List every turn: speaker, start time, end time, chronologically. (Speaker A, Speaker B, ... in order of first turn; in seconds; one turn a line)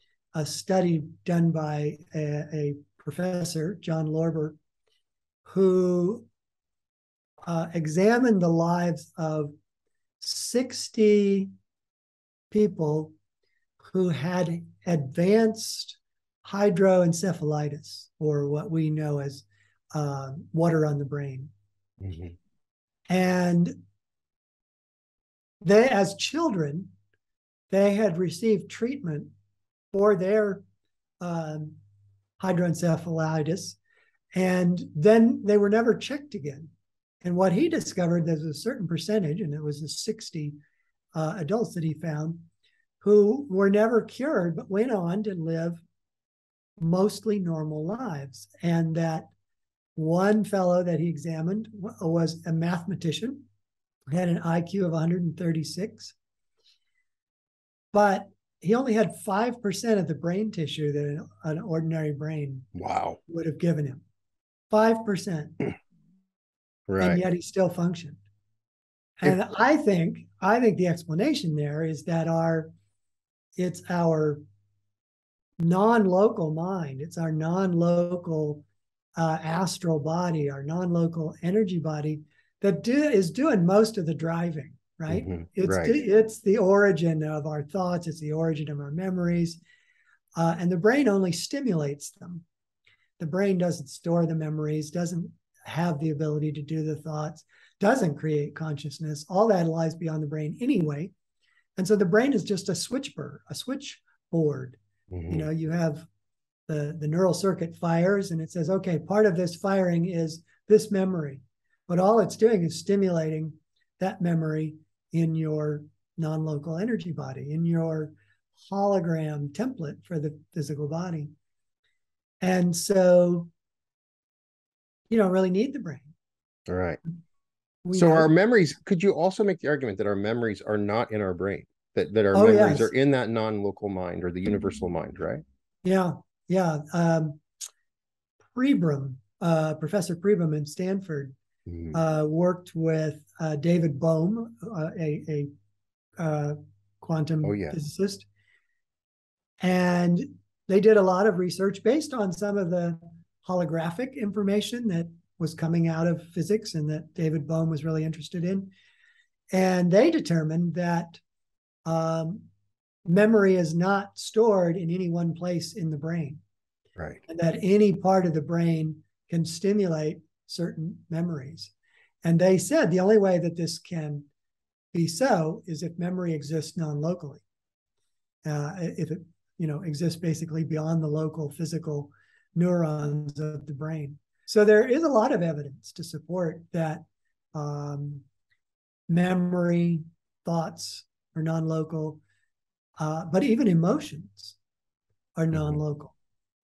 Speaker A: 0.3-4.6
Speaker A: 5.5-6.3
Speaker A: 7.5-9.5
Speaker A: 10.2-11.5
Speaker A: 12.5-13.1
Speaker A: 13.8-21.5
Speaker B: 22.0-22.4
Speaker A: 23.1-23.8
Speaker A: 25.6-26.9
Speaker A: 27.7-29.3
Speaker A: 29.9-30.6
Speaker A: 31.2-31.8
Speaker A: 32.4-33.8
Speaker A: 34.4-36.7
Speaker A: 37.2-40.6
Speaker A: 41.1-42.5
Speaker A: 43.0-45.8
Speaker A: 46.8-49.3
Speaker A: 50.0-53.5
Speaker A: 54.1-56.1
Speaker A: 57.9-62.7
Speaker B: 62.8-63.2
Speaker A: 63.3-64.0
Speaker A: 64.7-65.7
Speaker B: 66.9-67.2
Speaker A: 67.0-68.2
Speaker A: 69.2-72.7
Speaker A: 73.6-74.4
Speaker A: 75.6-78.7
Speaker A: 79.2-89.6
Speaker B: 85.1-85.9
Speaker A: 90.4-92.5
Speaker A: 93.2-101.1
Speaker A: 101.8-106.1
Speaker B: 105.1-105.5
Speaker A: 106.7-121.3
Speaker A: 122.4-123.5
Speaker A: 125.1-126.1
Speaker B: 126.7-127.0
Speaker A: 127.8-128.3
Speaker B: 127.9-135.4
Speaker A: 132.3-132.9
Speaker A: 135.8-137.4
Speaker A: 138.5-141.3
Speaker B: 141.7-142.0
Speaker A: 141.9-145.5
Speaker A: 146.2-148.3
Speaker B: 147.4-147.8
Speaker A: 149.6-158.7
Speaker A: 159.5-161.2
Speaker A: 161.9-162.5
Speaker A: 163.1-166.4
Speaker A: 167.3-171.7
Speaker A: 172.2-174.3
Speaker A: 174.9-177.4
Speaker A: 178.4-188.2
Speaker A: 189.1-192.2
Speaker A: 193.0-194.6
Speaker A: 195.4-196.2